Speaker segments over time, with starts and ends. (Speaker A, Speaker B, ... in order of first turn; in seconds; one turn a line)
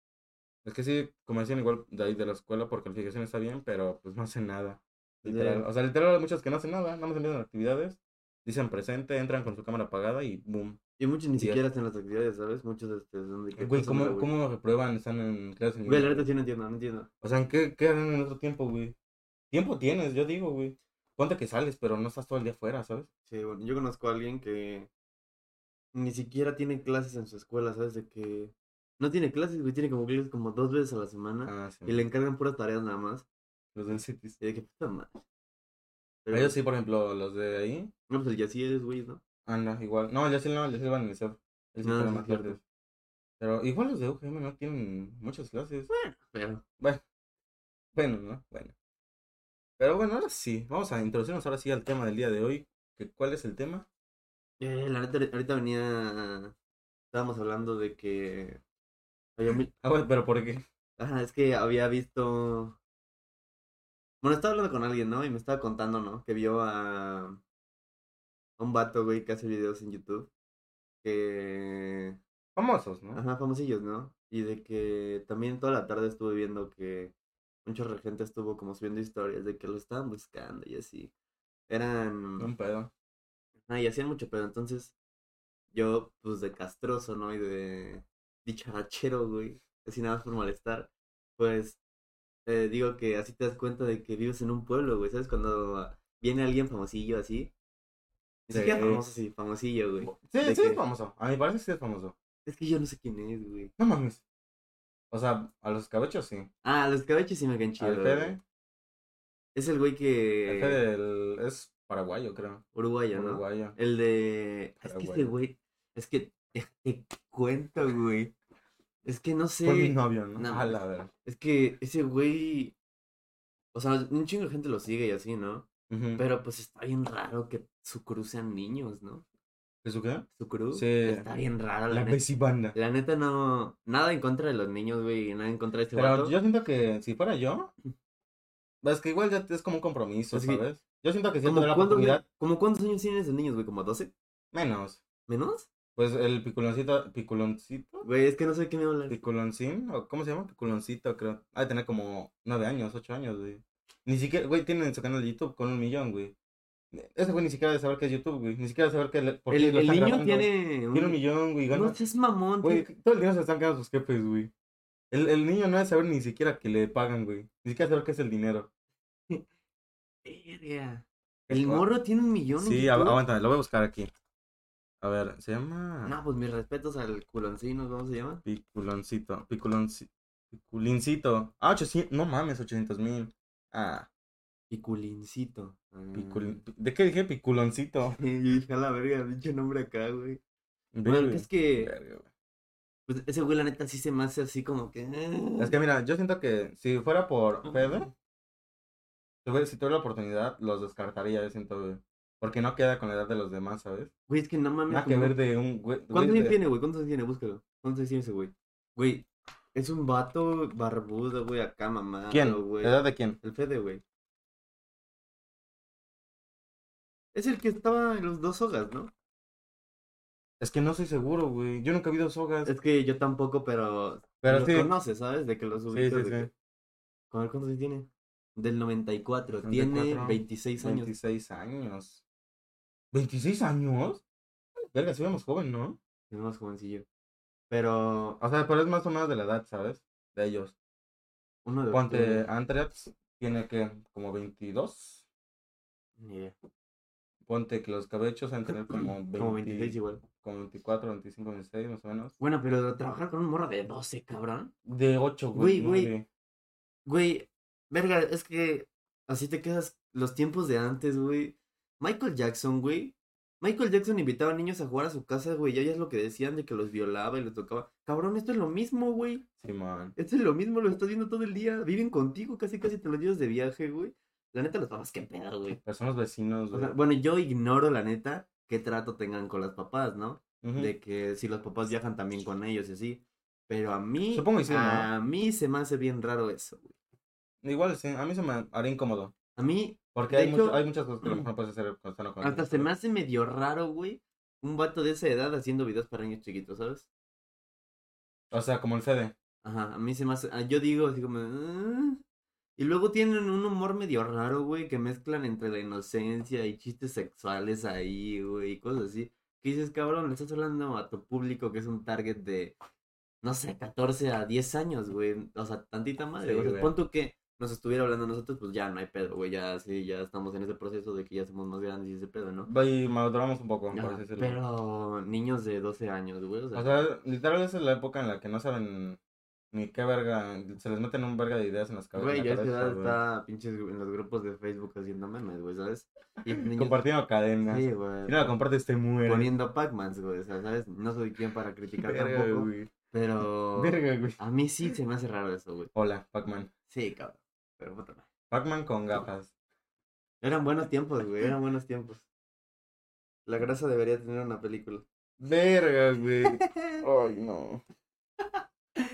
Speaker A: 0.7-10.8
Speaker B: 5.2-5.7
Speaker B: 11.0-14.3
Speaker A: 11.4-11.6
Speaker A: 13.6-16.3
Speaker B: 15.9-17.1
Speaker A: 17.2-18.9
Speaker A: 19.5-23.1
Speaker B: 23.3-24.9
Speaker B: 25.9-33.3
Speaker A: 31.5-32.1
Speaker A: 33.8-34.4
Speaker B: 34.4-35.2
Speaker B: 36.2-36.6
Speaker A: 36.3-37.9
Speaker B: 38.1-39.2
Speaker A: 39.5-42.6
Speaker B: 41.8-42.6
Speaker A: 43.4-45.9
Speaker B: 45.9-46.6
Speaker A: 48.0-48.7
Speaker A: 49.8-53.9
Speaker B: 54.6-56.5
Speaker B: 57.1-58.6
Speaker B: 59.4-59.7
Speaker A: 59.7-60.6
Speaker B: 61.0-62.8
Speaker B: 64.2-67.4
Speaker B: 68.6-70.3
Speaker B: 71.0-72.2
Speaker A: 72.6-73.2
Speaker B: 73.1-77.1
Speaker B: 77.7-81.1
Speaker B: 81.7-82.5
Speaker A: 82.4-82.9
Speaker B: 83.7-84.9
Speaker B: 85.7-91.8
Speaker B: 92.5-97.5
Speaker B: 98.5-100.8
Speaker A: 98.5-99.1
Speaker A: 100.0-102.2
Speaker B: 102.5-103.7
Speaker A: 103.8-104.2
Speaker A: 105.1-106.5
Speaker B: 106.6-108.4
Speaker A: 107.8-108.4
Speaker B: 109.5-110.8
Speaker A: 110.5-112.6
Speaker B: 112.8-118.3
Speaker A: 113.1-113.8
Speaker A: 114.8-115.3
Speaker B: 119.0-122.8
Speaker A: 119.7-121.1
Speaker B: 123.7-129.2
Speaker A: 125.9-126.2
Speaker A: 129.8-131.3
Speaker B: 130.3-132.2
Speaker A: 131.9-132.8
Speaker B: 132.7-136.4
Speaker A: 135.9-137.7
Speaker A: 138.8-142.2
Speaker B: 140.3-140.7
Speaker B: 141.4-144.1
Speaker A: 144.5-145.0
Speaker B: 145.3-145.7
Speaker A: 146.0-148.1
Speaker B: 148.0-149.2
Speaker A: 149.1-156.3
Speaker A: 156.9-162.0
Speaker B: 159.5-161.2
Speaker B: 161.7-162.9
Speaker A: 162.6-164.5
Speaker A: 165.1-168.7
Speaker B: 170.2-173.2
Speaker A: 171.5-171.9
Speaker A: 172.6-174.1
Speaker A: 175.0-176.1
Speaker B: 176.1-178.4
Speaker A: 178.4-184.1
Speaker B: 184.7-186.6
Speaker A: 186.1-188.2
Speaker B: 188.1-190.4
Speaker A: 190.9-192.3
Speaker B: 191.1-191.9
Speaker B: 193.1-195.8
Speaker A: 195.6-198.1
Speaker B: 197.6-198.1
Speaker A: 199.4-204.1
Speaker B: 204.3-205.4
Speaker A: 204.9-206.6
Speaker B: 206.1-214.0
Speaker A: 212.3-213.4
Speaker B: 217.3-219.1
Speaker A: 220.6-222.7
Speaker B: 222.7-226.5
Speaker A: 224.4-224.9
Speaker A: 225.9-226.5
Speaker B: 227.3-231.1
Speaker A: 229.6-232.2
Speaker A: 233.1-234.2
Speaker A: 234.8-236.0
Speaker B: 236.3-237.1
Speaker B: 237.7-238.4
Speaker A: 238.4-240.8
Speaker B: 241.7-242.5
Speaker A: 241.9-245.2
Speaker B: 246.2-246.6
Speaker A: 247.5-252.3
Speaker B: 248.9-250.2
Speaker B: 252.4-254.7
Speaker A: 254.9-256.3
Speaker B: 255.6-256.1
Speaker B: 257.1-269.5
Speaker A: 269.6-270.1
Speaker B: 270.2-275.8
Speaker A: 275.8-276.9
Speaker B: 276.7-286.9
Speaker A: 280.6-280.9
Speaker A: 284.3-285.1
Speaker A: 287.6-289.3
Speaker B: 289.6-291.5
Speaker A: 290.1-292.9
Speaker B: 292.4-297.1
Speaker A: 298.5-299.3
Speaker B: 299.6-302.2
Speaker B: 302.8-312.8
Speaker B: 313.4-322.7
Speaker A: 316.4-316.9
Speaker A: 322.7-324.6
Speaker B: 323.9-327.0
Speaker A: 326.7-329.2
Speaker A: 329.7-333.2
Speaker B: 332.2-337.0
Speaker A: 336.6-339.5
Speaker B: 337.6-338.5
Speaker B: 339.3-345.9
Speaker A: 342.1-342.9
Speaker A: 343.8-344.4
Speaker A: 345.9-346.7
Speaker B: 346.9-348.3
Speaker A: 348.5-349.5
Speaker B: 350.4-352.2
Speaker B: 353.5-355.1
Speaker A: 355.4-357.8
Speaker B: 356.4-357.0